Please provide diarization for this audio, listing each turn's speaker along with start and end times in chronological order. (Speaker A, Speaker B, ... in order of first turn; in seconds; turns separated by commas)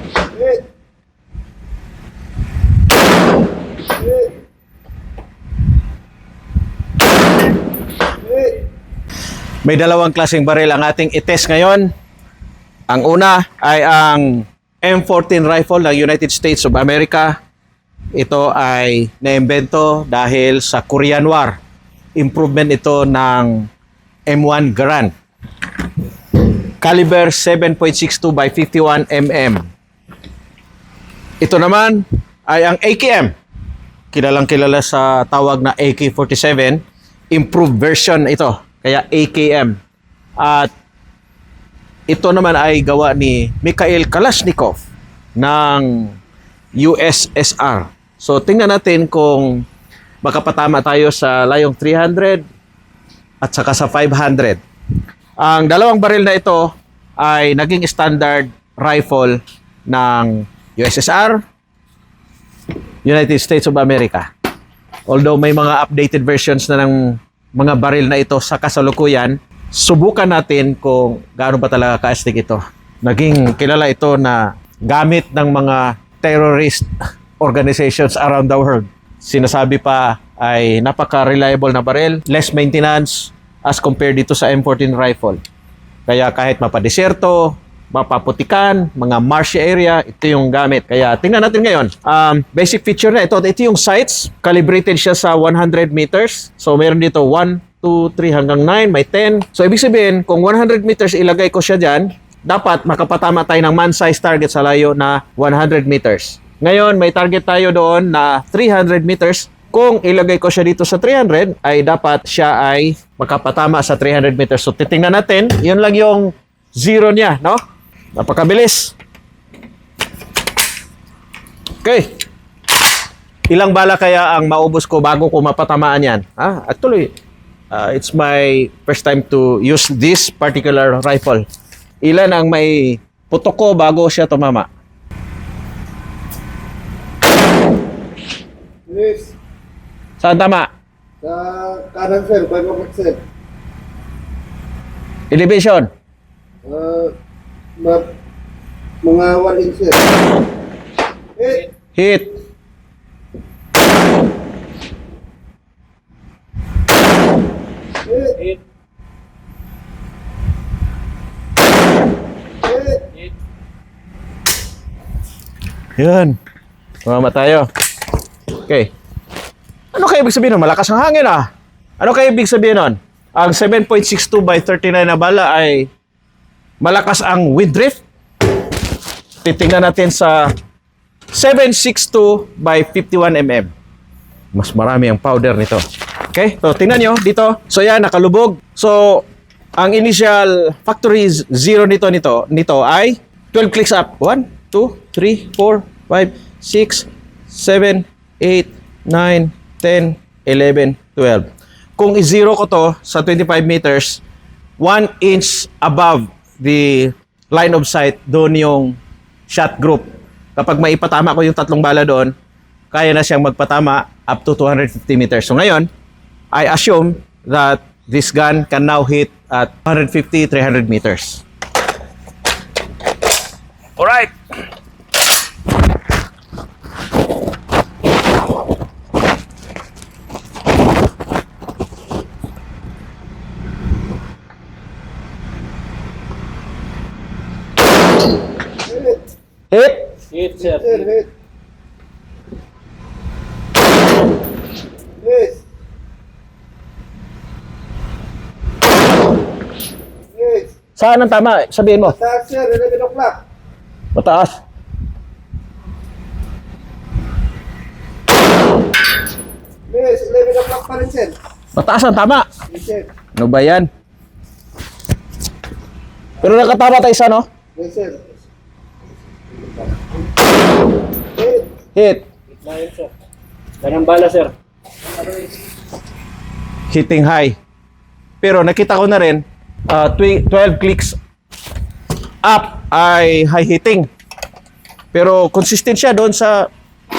Speaker A: 0.3-0.6, Speaker A: 4.0-4.3, Speaker A: 8.2-8.6, Speaker B: 9.6-11.9, Speaker B: 12.9-17.4, Speaker B: 18.1-21.6, Speaker B: 22.1-23.7, Speaker B: 24.3-25.1, Speaker B: 26.3-29.6, Speaker B: 31.4-33.3, Speaker B: 34.1-39.8, Speaker B: 40.4-40.7, Speaker B: 42.1-44.8, Speaker B: 45.4-46.1, Speaker B: 46.8-49.6, Speaker B: 50.2-52.4, Speaker B: 53.4-54.6, Speaker B: 55.4-61.4, Speaker B: 63.0-64.3, Speaker B: 65.1-76.9, Speaker B: 77.4-85.4, Speaker B: 86.1-117.6, Speaker B: 118.2-118.9, Speaker B: 121.8-122.1, Speaker B: 123.5-127.1, Speaker B: 127.7-131.4, Speaker B: 132.0-134.7, Speaker A: 138.9-139.3, Speaker B: 140.2-140.7, Speaker A: 141.2-143.2, Speaker B: 145.3-145.9, Speaker A: 146.6-147.1, Speaker A: 147.8-148.1, Speaker A: 149.0-150.0, Speaker A: 151.4-151.7, Speaker B: 151.9-152.4, Speaker A: 158.1-158.3, Speaker C: 158.3-158.6, Speaker A: 162.6-162.9, Speaker B: 166.0-166.4, Speaker B: 167.1-168.9, Speaker B: 169.9-171.5, Speaker B: 172.0-175.9, Speaker B: 176.8-178.0, Speaker B: 179.4-180.5, Speaker B: 181.3-183.7, Speaker B: 184.5-189.2, Speaker B: 189.8-204.2, Speaker B: 204.8-209.0, Speaker B: 209.5-212.3, Speaker B: 212.9-215.9, Speaker B: 216.5-221.4, Speaker B: 224.0-224.3, Speaker A: 238.8-239.3, Speaker B: 239.7-240.1, Speaker C: 240.3-241.1, Speaker A: 240.7-241.3, Speaker A: 245.2-245.6, Speaker A: 250.3-250.7, Speaker B: 250.9-252.2, Speaker A: 252.0-253.4, Speaker B: 254.1-254.6, Speaker A: 259.9-261.3, Speaker B: 261.8-262.5, Speaker A: 262.7-263.1, Speaker B: 263.3-263.9, Speaker B: 266.4-267.4, Speaker A: 267.8-268.3, Speaker A: 271.4-271.7, Speaker B: 271.9-272.2, Speaker C: 272.5-273.1, Speaker C: 273.8-274.5, Speaker B: 276.9-277.6, Speaker B: 278.4-281.2, Speaker B: 282.4-284.1, Speaker B: 285.1-286.7